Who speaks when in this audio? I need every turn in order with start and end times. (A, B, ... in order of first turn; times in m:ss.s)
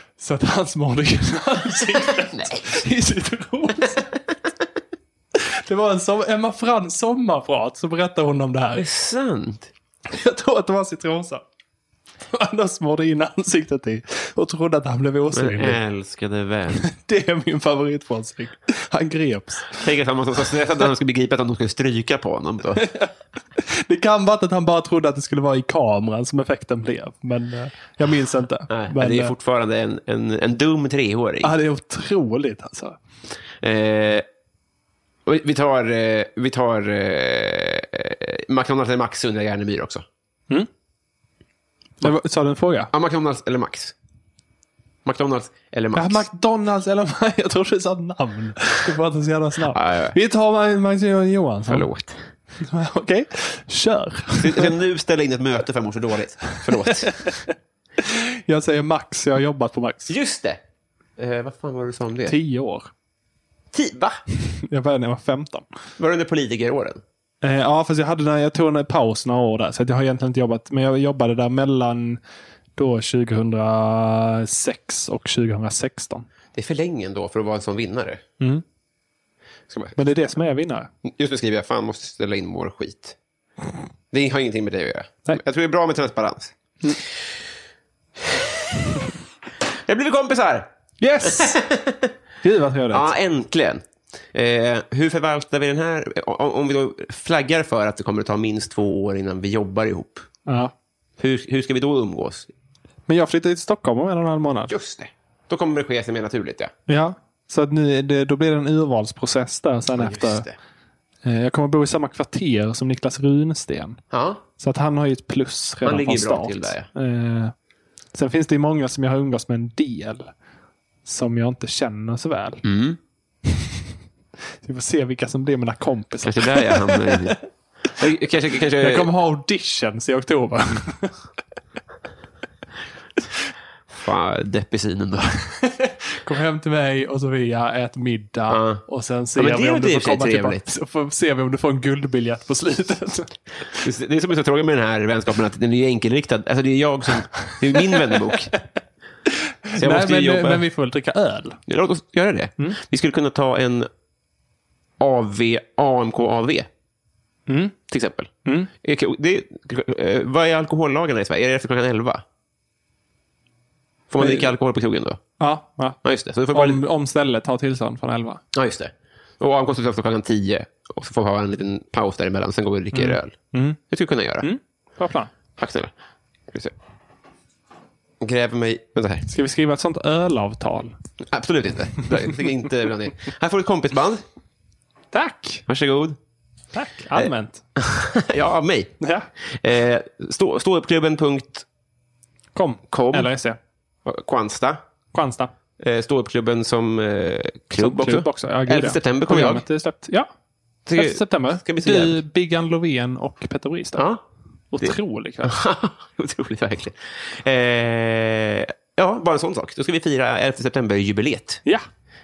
0:00.2-0:04.2 A
0:02.3-0:02.8 B
0:05.3-0:08.9 A
0:08.7-0:09.7 B
0:10.1-0:11.4 A
0:12.3-0:15.8 A
0:15.3-0:16.9 B
0:16.8-0:19.9 A
0:19.8-0:22.9 B
0:22.8-0:29.3 A
0:28.7-0:31.5 B
0:31.4-0:33.0 A
0:33.6-0:34.2 B
0:35.2-0:40.0 B
0:42.0-0:42.9 A
0:42.9-0:43.9 B
0:45.0-0:46.2 B
0:45.9-0:51.9 A
0:49.7-0:50.2 B
0:51.7-0:52.3 B
0:52.6-0:54.7 A
0:54.3-0:57.4 B
0:56.8-1:00.1 A
1:00.1-1:00.6 B
1:01.2-1:02.4 B
1:02.2-1:02.9 A
1:03.7-1:04.2 B
1:04.5-1:05.6 A
1:06.0-1:07.0 B
1:07.4-1:12.2 A
1:12.8-1:16.3 A
1:16.5-1:18.2 B
1:19.7-1:20.0 B
1:20.0-1:20.9 A
1:21.0-1:23.2 B
1:24.1-1:26.5 B
1:28.2-1:28.6 B
1:29.7-1:30.7 B
1:31.0-1:31.6 A
1:31.2-1:32.1 B
1:32.4-1:33.1 A
1:32.9-1:40.3 B
1:40.4-1:40.7 A
1:41.2-1:42.5 B
1:43.1-1:44.8 A
1:44.7-1:46.7 B
1:46.9-1:50.4 A
1:49.9-1:50.5 B
1:51.2-1:54.0 A
1:54.1-1:54.4 B
1:54.6-1:57.5 A
1:55.8-1:56.9 B
1:58.1-2:00.3 A
2:01.0-2:02.6 A
2:02.6-2:03.0 B
2:04.6-2:07.3 A
2:06.2-2:09.1 B
2:08.8-2:11.2 A
2:13.9-2:15.6 B
2:15.7-2:23.8 A
2:18.5-2:18.8 B
2:19.4-2:20.7 B
2:23.8-2:28.5 B
2:29.3-2:31.6 A
2:29.8-2:30.6 B
2:31.7-2:33.9 B
2:35.0-2:36.7 B
2:37.5-2:37.8 A
2:37.9-2:42.2 B
2:38.4-2:38.7 A
2:44.1-2:45.2 B
2:44.2-2:44.5 A
2:45.4-2:46.0 A
2:46.0-2:46.8 B
2:46.5-2:48.4 A
2:48.5-2:53.4 B
2:52.9-2:53.8 A
2:53.9-2:54.5 B
2:54.4-2:55.3 A
2:55.6-2:55.9 B
2:58.2-2:59.3 B
2:59.3-3:00.9 A
3:01.2-3:04.2 B
3:05.1-3:05.6 A
3:05.7-3:06.2 B
3:06.7-3:07.6 A
3:07.1-3:08.9 B
3:09.0-3:09.3 A
3:09.5-3:11.6 B
3:12.5-3:13.6 A
3:12.9-3:13.3 B
3:14.0-3:14.8 B
3:15.1-3:15.5 A
3:15.8-3:19.6 B
3:17.8-3:20.3 A
3:20.8-3:22.2 B
3:20.9-3:24.0 A
3:24.0-3:24.2 B
3:24.7-3:25.6 A
3:24.8-3:31.6 B